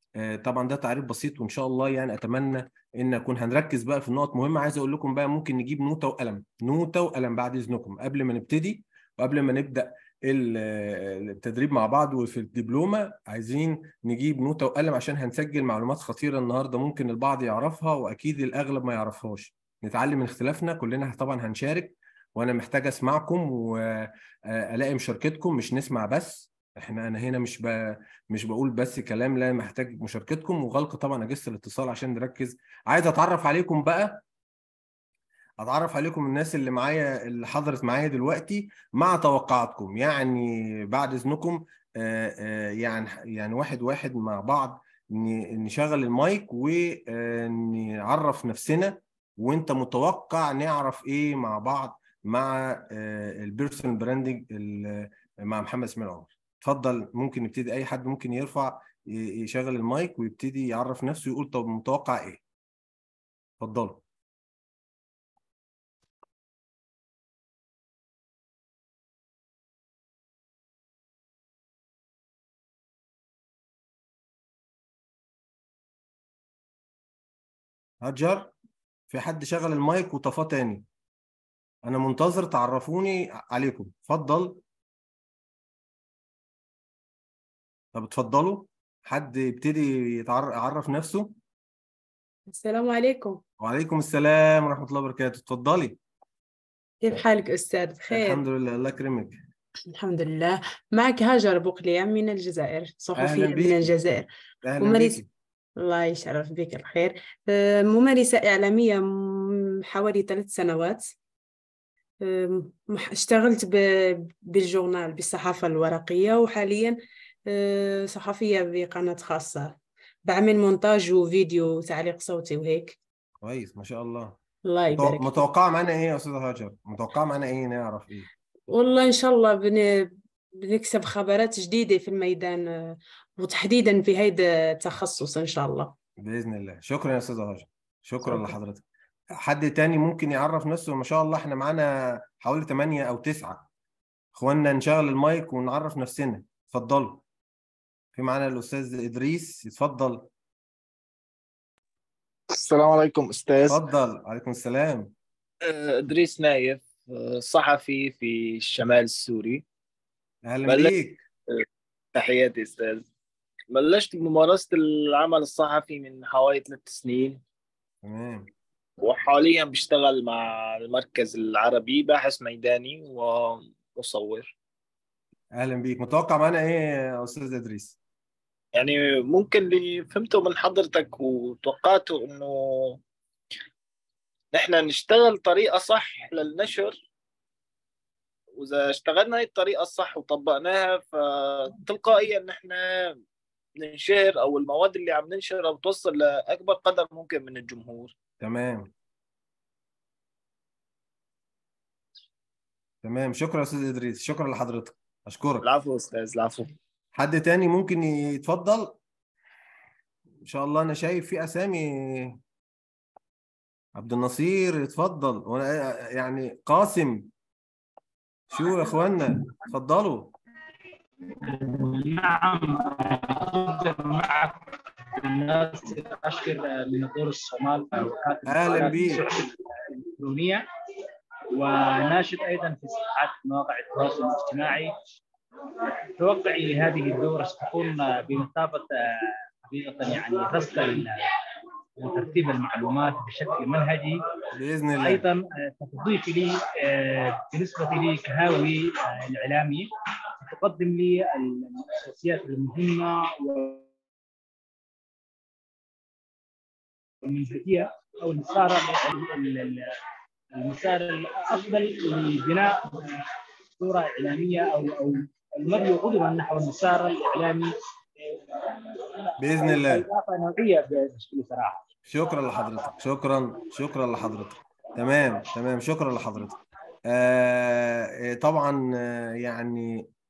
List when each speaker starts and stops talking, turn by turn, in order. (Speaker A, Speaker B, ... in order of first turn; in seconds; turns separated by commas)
Speaker A: 0.1-34.2, Speaker A: 35.6-62.4, Speaker A: 63.6-64.0, Speaker A: 78.0-78.5, Speaker A: 79.1-80.8, Speaker A: 81.8-84.6, Speaker A: 87.9-91.3, Speaker B: 92.5-93.4, Speaker A: 93.6-96.0, Speaker B: 97.0-98.4, Speaker A: 98.1-99.4, Speaker B: 99.9-104.2, Speaker A: 103.2-103.9, Speaker A: 104.6-105.3, Speaker B: 104.8-105.2, Speaker B: 105.8-111.1, Speaker B: 112.2-117.0, Speaker B: 117.5-123.0, Speaker A: 123.4-124.4, Speaker B: 124.6-125.3, Speaker A: 124.9-128.3, Speaker B: 128.7-135.9, Speaker A: 136.2-138.8, Speaker A: 139.3-143.7, Speaker A: 144.3-147.2, Speaker A: 148.1-150.3, Speaker C: 152.5-153.8, Speaker A: 153.7-155.1, Speaker C: 155.6-159.6, Speaker A: 160.4-161.2, Speaker C: 160.7-161.0, Speaker C: 161.5-163.0, Speaker C: 163.7-167.4, Speaker A: 168.0-168.5, Speaker C: 169.0-174.5, Speaker A: 175.5-178.0, Speaker C: 178.8-183.0, Speaker C: 184.5-187.1, Speaker C: 188.6-193.2, Speaker C: 193.8-198.1, Speaker A: 198.4-198.9, Speaker A: 203.0-205.6, Speaker C: 205.6-206.7, Speaker A: 207.1-209.0, Speaker A: 210.4-212.4, Speaker A: 213.9-217.3, Speaker A: 218.5-220.3, Speaker D: 221.3-230.6, Speaker A: 228.5-229.2, Speaker D: 231.5-235.0, Speaker D: 236.1-239.1, Speaker D: 239.6-241.2, Speaker D: 242.0-244.2, Speaker A: 244.5-245.2, Speaker D: 245.0-253.8, Speaker D: 257.2-259.9, Speaker D: 260.5-267.7, Speaker D: 268.2-271.8, Speaker A: 269.4-270.0, Speaker A: 272.1-276.5, Speaker A: 277.1-280.1